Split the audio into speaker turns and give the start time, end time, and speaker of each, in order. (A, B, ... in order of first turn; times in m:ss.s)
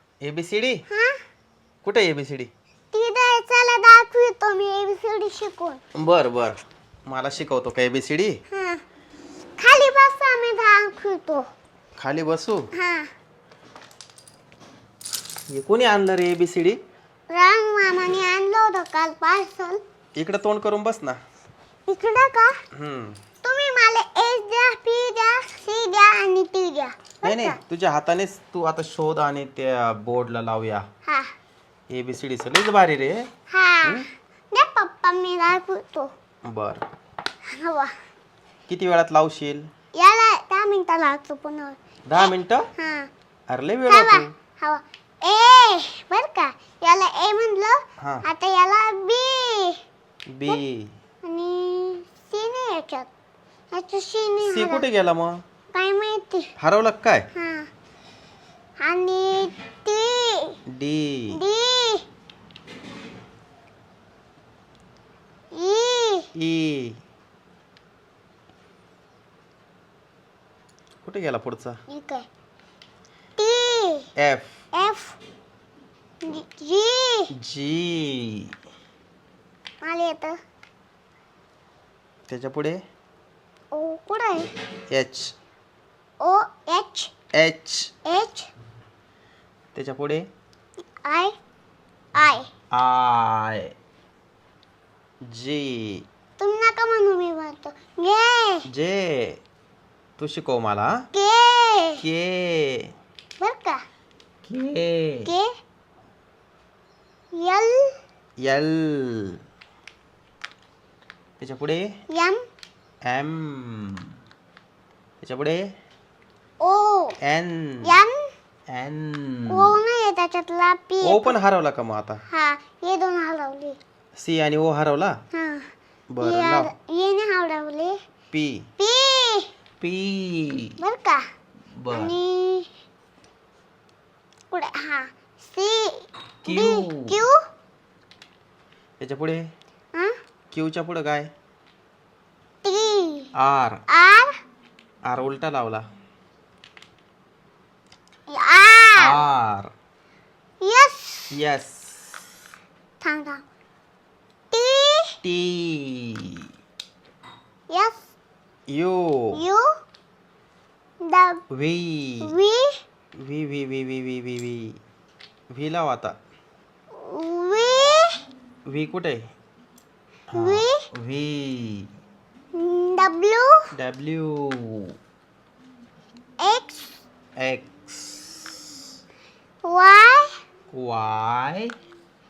0:00.2-0:00.8 A
0:00.9-0:01.2 B
0:01.8-0:02.5 A
0:02.9-0:05.8 B
0:05.9-0:08.4 A
0:08.5-0:08.8 B
0:09.6-0:11.4 B
0:12.0-0:12.7 A
0:12.8-0:13.1 B
0:15.5-0:16.8 A
0:17.3-0:19.8 B
0:20.2-0:21.2 A
0:21.9-0:22.6 B
0:22.7-0:23.2 A
0:23.4-0:27.6 B
0:27.2-0:30.8 A
0:31.1-0:31.3 B
0:31.9-0:33.3 A
0:33.5-0:36.1 B
0:36.4-0:36.8 A
0:37.5-0:37.9 B
0:38.7-0:39.7 A
0:40.0-0:41.8 B
0:42.1-0:42.7 A
0:42.8-0:43.1 B
0:43.5-0:44.3 A
0:43.9-0:49.8 B
0:48.0-0:48.2 A
0:50.3-0:50.9 A
0:51.2-0:53.1 B
0:53.7-0:54.8 B
0:54.5-0:55.4 A
0:55.7-0:56.5 B
0:56.6-0:57.3 A
0:57.3-0:57.7 B
0:58.8-1:00.6 B
1:00.7-1:01.4 A
1:01.3-1:02.1 B
1:05.5-1:06.3 B
1:06.4-1:07.0 A
1:11.0-1:11.8 A
1:11.9-1:12.3 B
1:13.4-1:14.1 B
1:14.2-1:14.6 A
1:14.7-1:15.2 B
1:16.2-1:17.3 B
1:17.4-1:18.5 A
1:19.8-1:20.4 B
1:22.3-1:22.8 A
1:23.7-1:24.5 B
1:24.9-1:25.3 A
1:26.2-1:27.1 B
1:27.3-1:27.9 A
1:28.0-1:28.5 B
1:29.8-1:30.3 A
1:31.0-1:31.4 B
1:32.2-1:32.5 B
1:32.7-1:33.7 A
1:35.3-1:36.1 A
1:36.4-1:38.7 B
1:38.7-1:39.4 A
1:40.2-1:41.1 A
1:41.1-1:42.0 B
1:42.0-1:42.9 A
1:43.4-1:43.8 B
1:44.4-1:45.3 A
1:47.3-1:47.9 B
1:48.4-1:49.4 A
1:51.4-1:51.9 A
1:52.1-1:52.4 B
1:53.0-1:54.1 A
1:55.2-1:55.7 A
1:56.6-1:57.2 B
1:57.2-1:57.9 A
1:57.8-1:58.3 B
1:58.7-1:59.7 A
1:59.5-2:01.4 B
2:01.0-2:02.2 A
2:02.3-2:03.8 B
2:04.2-2:05.2 A
2:05.3-2:05.7 B
2:06.1-2:06.7 A
2:06.2-2:08.0 B
2:08.3-2:08.7 A
2:08.8-2:09.5 B
2:09.8-2:10.8 A
2:10.8-2:11.2 B
2:11.8-2:12.2 A
2:11.9-2:12.7 B
2:14.5-2:17.4 B
2:16.4-2:17.2 A
2:19.0-2:19.4 A
2:20.5-2:21.3 A
2:22.6-2:23.3 B
2:23.4-2:23.8 A
2:23.9-2:24.3 B
2:25.1-2:25.9 A
2:28.3-2:29.2 B
2:29.0-2:29.7 A
2:30.6-2:31.3 B
2:31.3-2:32.2 A
2:33.0-2:33.4 B
2:34.5-2:35.2 B
2:35.2-2:36.5 A
2:37.7-2:38.0 B
2:38.7-2:39.4 A
2:39.3-2:39.7 B
2:41.1-2:41.4 B
2:41.5-2:42.3 A
2:42.2-2:42.8 B
2:43.2-2:44.8 A
2:45.5-2:46.2 A
2:47.0-2:48.2 B
2:48.7-2:49.2 A
2:50.3-2:51.9 A
2:50.4-2:50.9 B
2:52.6-2:53.6 B
2:53.7-2:55.0 A
2:56.4-2:57.0 B
2:57.4-2:58.6 A
2:59.6-3:00.4 B
3:00.7-3:01.7 A